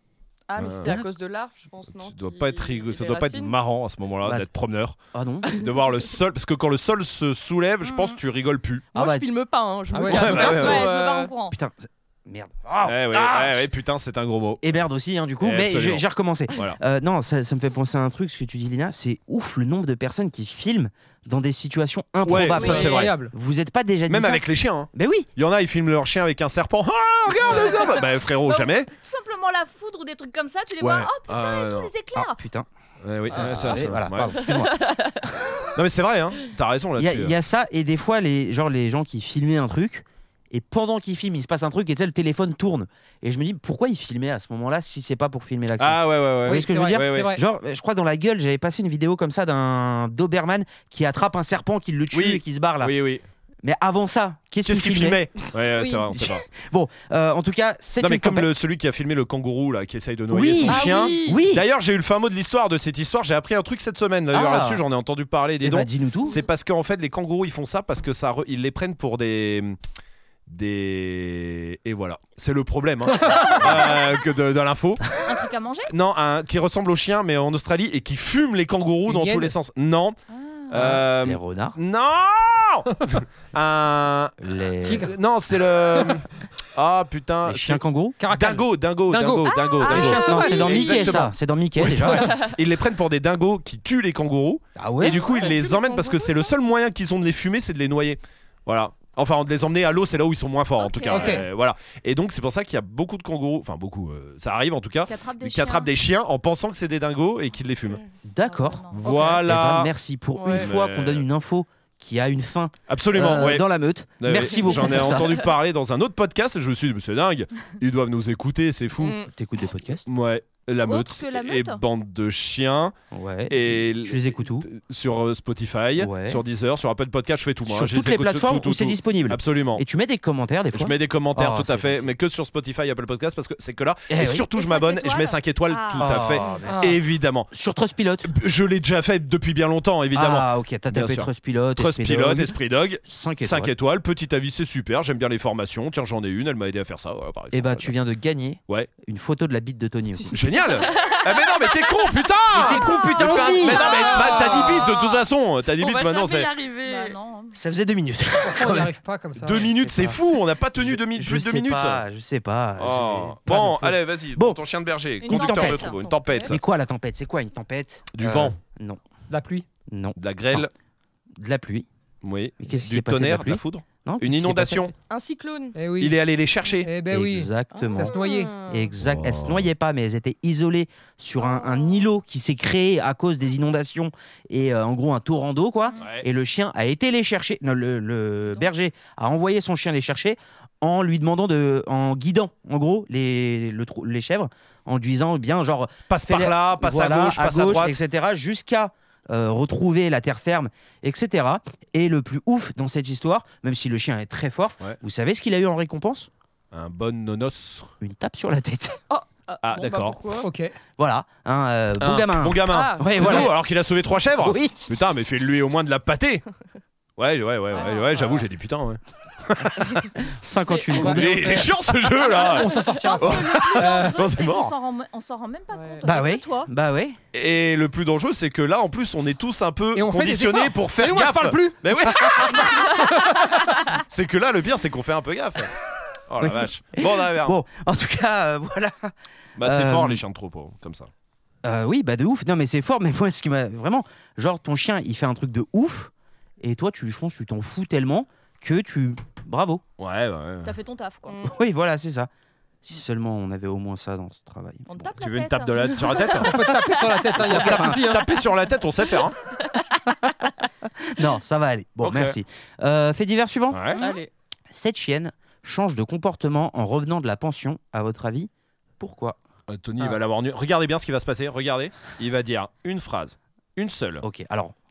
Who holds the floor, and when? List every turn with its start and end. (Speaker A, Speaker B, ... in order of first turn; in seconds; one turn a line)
Speaker A: 0.5-3.5
Speaker B: 0.6-0.9
Speaker B: 1.9-8.8
Speaker C: 5.1-5.5
Speaker D: 7.8-8.2
Speaker C: 8.9-9.2
Speaker A: 8.9-11.3
Speaker E: 9.9-10.7
Speaker B: 10.1-10.8
Speaker D: 10.2-11.6
Speaker C: 11.5-13.7
Speaker B: 12.8-14.6
Speaker C: 14.6-25.3
Speaker B: 15.4-16.8
Speaker B: 22.2-23.1
Speaker E: 22.5-23.3
Speaker B: 24.1-28.9
Speaker D: 28.4-32.4
Speaker B: 30.8-31.9
Speaker C: 32.1-32.7
Speaker B: 33.0-34.4
Speaker C: 33.3-34.8
Speaker A: 34.4-35.3
Speaker B: 35.7-37.3
Speaker C: 37.0-53.0
Speaker B: 45.8-47.4
Speaker E: 46.5-47.4
Speaker B: 52.1-53.2
Speaker C: 53.6-55.3
Speaker B: 54.6-56.4
Speaker D: 55.8-56.2
Speaker C: 56.2-58.5
Speaker B: 58.0-69.8
Speaker C: 60.3-61.6
Speaker A: 60.6-61.4
Speaker C: 64.3-64.8
Speaker C: 65.6-66.3
Speaker B: 70.5-75.0
Speaker D: 75.2-75.9
Speaker B: 75.9-80.2
Speaker E: 79.1-79.5
Speaker D: 80.3-81.0
Speaker B: 80.7-108.0
Speaker C: 80.7-81.8
Speaker C: 84.4-85.1
Speaker E: 84.8-85.1
Speaker C: 87.5-88.2
Speaker E: 88.2-91.1
Speaker D: 89.4-91.1
Speaker C: 90.0-92.3
Speaker E: 92.0-92.3
Speaker C: 94.8-95.2
Speaker A: 95.0-96.5
Speaker D: 100.8-101.4
Speaker E: 101.1-101.4
Speaker D: 105.1-105.9
Speaker C: 108.2-115.4
Speaker D: 108.4-109.4
Speaker B: 108.9-109.9
Speaker A: 110.3-110.7
Speaker B: 110.5-111.3
Speaker B: 112.9-113.7
Speaker B: 114.2-119.2
Speaker A: 114.4-115.3
Speaker A: 119.0-119.3
Speaker C: 119.3-120.0
Speaker B: 120.1-122.9
Speaker D: 120.8-121.8
Speaker C: 123.1-124.7
Speaker B: 123.5-129.8
Speaker C: 126.0-126.4
Speaker C: 127.7-132.1
Speaker B: 130.7-137.5
Speaker C: 134.1-134.5
Speaker D: 134.5-136.6
Speaker C: 135.9-138.3
Speaker E: 136.6-137.0
Speaker B: 138.2-147.9
Speaker C: 140.1-143.7
Speaker C: 147.5-150.4
Speaker B: 150.3-156.5
Speaker C: 152.5-153.9
Speaker A: 153.4-155.2
Speaker D: 153.9-154.3
Speaker A: 155.8-157.2
Speaker D: 156.8-157.6
Speaker C: 157.5-158.9
Speaker E: 158.4-159.7
Speaker B: 159.4-162.0
Speaker C: 159.5-160.2
Speaker C: 160.7-164.6
Speaker B: 162.8-166.6
Speaker D: 165.2-166.3
Speaker C: 165.3-165.9
Speaker A: 166.2-166.5
Speaker C: 166.5-169.0
Speaker B: 168.1-168.6
Speaker E: 169.3-169.7
Speaker C: 169.9-170.7
Speaker B: 170.2-170.7
Speaker C: 171.3-171.9
Speaker B: 172.2-174.9
Speaker C: 172.6-174.9
Speaker A: 175.1-175.8
Speaker E: 175.8-176.2
Speaker B: 176.0-176.9
Speaker E: 176.8-178.5
Speaker C: 177.1-206.3
Speaker A: 177.7-178.9
Speaker B: 179.0-179.7
Speaker B: 186.0-186.2
Speaker B: 196.1-198.0
Speaker B: 206.7-207.9
Speaker C: 208.0-209.0
Speaker A: 209.1-210.5
Speaker B: 209.6-210.2
Speaker E: 210.4-210.7
Speaker C: 211.0-213.6
Speaker B: 212.0-216.4
Speaker A: 212.7-213.5
Speaker C: 214.4-214.7
Speaker B: 217.2-220.2
Speaker D: 217.7-218.2
Speaker A: 217.8-218.0
Speaker C: 220.2-221.8
Speaker A: 220.6-221.1
Speaker E: 220.9-221.6
Speaker B: 220.9-224.7
Speaker E: 222.3-224.2
Speaker D: 222.8-226.7
Speaker A: 225.7-226.0
Speaker C: 226.0-227.2
Speaker B: 227.3-232.9
Speaker E: 229.9-233.6
Speaker D: 232.6-233.1
Speaker B: 234.1-235.7
Speaker B: 236.3-237.6
Speaker C: 236.4-240.2
Speaker B: 239.6-241.1
Speaker C: 241.6-249.8
Speaker B: 250.0-250.7
Speaker D: 250.6-251.4
Speaker A: 251.3-251.5
Speaker C: 251.4-252.3
Speaker C: 252.8-254.9
Speaker D: 254.8-256.4
Speaker B: 255.0-256.7
Speaker E: 256.3-258.2
Speaker B: 257.4-259.4
Speaker C: 257.4-258.0
Speaker C: 260.8-263.9
Speaker B: 262.0-262.4
Speaker B: 263.7-264.0
Speaker D: 264.0-264.2
Speaker A: 264.0-264.3
Speaker C: 264.7-269.4
Speaker B: 269.7-274.2
Speaker C: 274.2-274.7